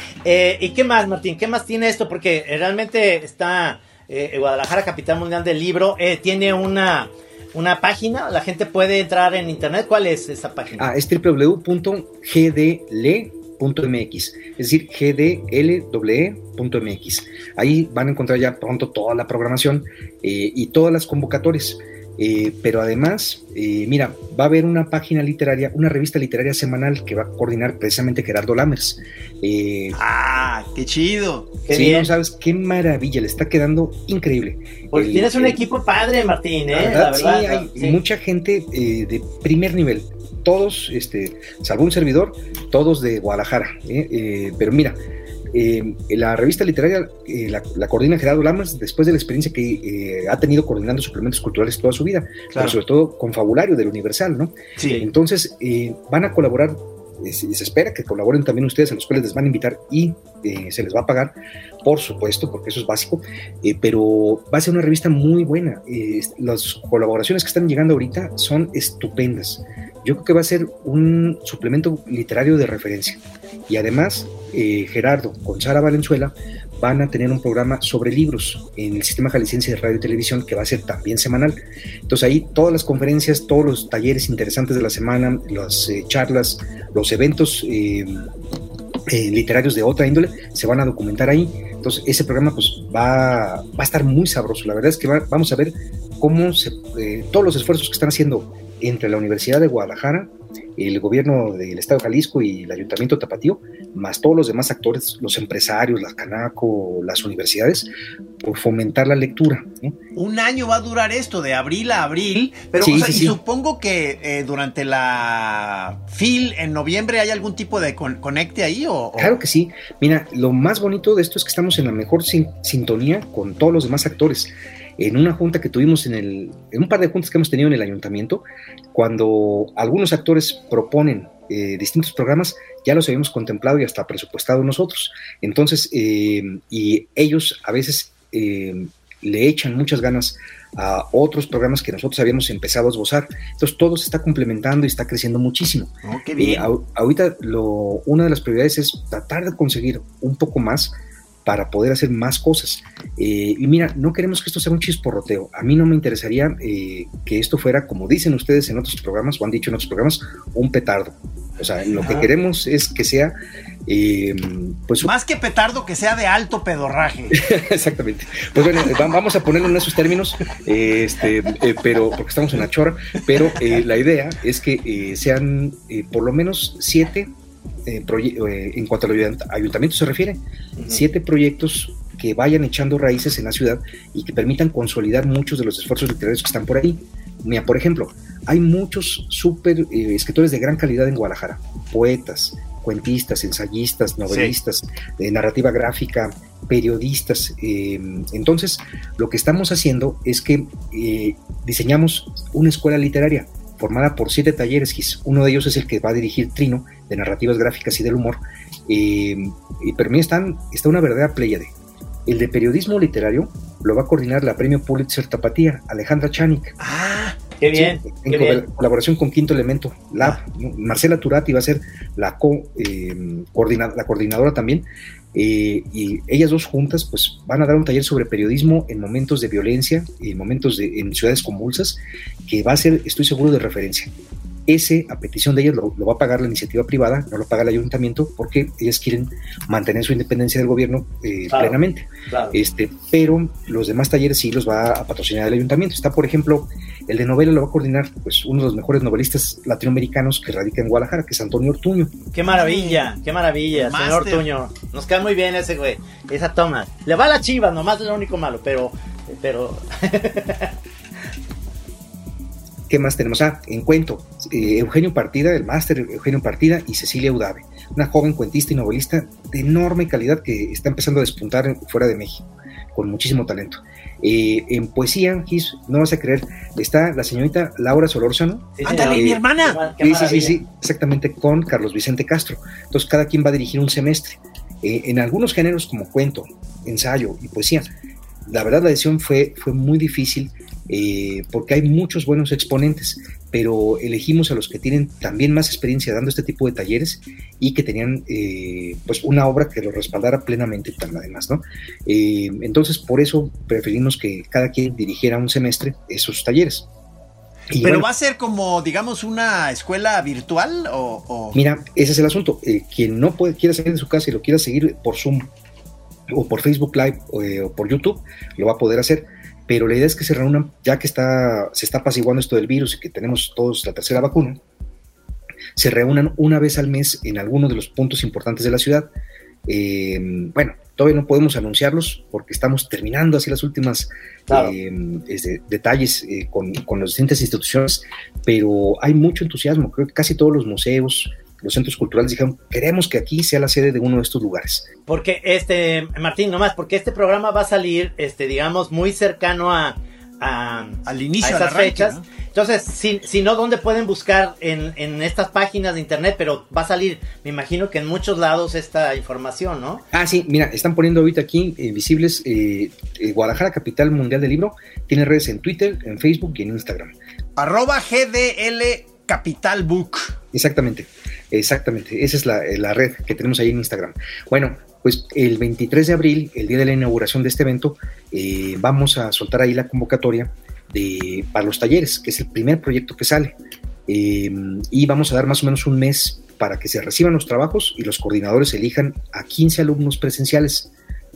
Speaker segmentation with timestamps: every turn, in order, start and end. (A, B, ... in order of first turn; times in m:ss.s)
0:00.2-0:10.9 A
0:10.8-0:30.0 B
0:30.0-0:31.6 C
0:31.7-0:32.1 A
0:31.7-0:35.6 B
0:34.9-0:38.0 A
0:36.7-0:45.0 B
0:45.5-1:28.3 B
0:52.5-0:52.8 C
0:54.8-0:55.1 C
1:29.1-1:47.9 B
1:48.4-1:50.0 B
1:50.2-1:59.4 C
1:52.8-1:53.4 B
1:59.2-2:31.0 B
2:26.0-2:26.7 C
2:31.5-2:43.4 B
2:43.9-2:45.1 B
2:45.0-2:47.4 C
2:47.3-2:57.3 B
2:57.9-3:31.7 B
3:14.3-3:14.5 C
3:32.3-3:36.8 B
3:36.8-3:37.4 C
3:37.6-3:38.6 A
3:37.7-3:54.1 B
3:54.7-4:12.2 B
4:01.5-4:01.8 A
4:02.3-4:02.6 A
4:12.3-4:20.7 A
4:12.5-4:13.1 C
4:13.7-4:14.4 C
4:22.9-4:39.4 B
4:38.8-4:40.6 A
4:38.8-4:39.8 C
4:40.0-4:47.9 B
4:48.5-5:06.9 B
5:07.7-5:08.1 B
5:07.7-5:11.6 C
5:11.5-5:15.5 B
5:16.3-5:24.6 B
5:25.8-5:29.1 B
5:29.7-5:44.9 B
5:34.5-5:34.7 A
5:45.1-6:00.1 A
5:51.1-5:52.2 C
6:00.1-6:07.1 B
6:07.6-6:10.4 C
6:10.5-6:23.6 B
6:24.1-6:30.9 B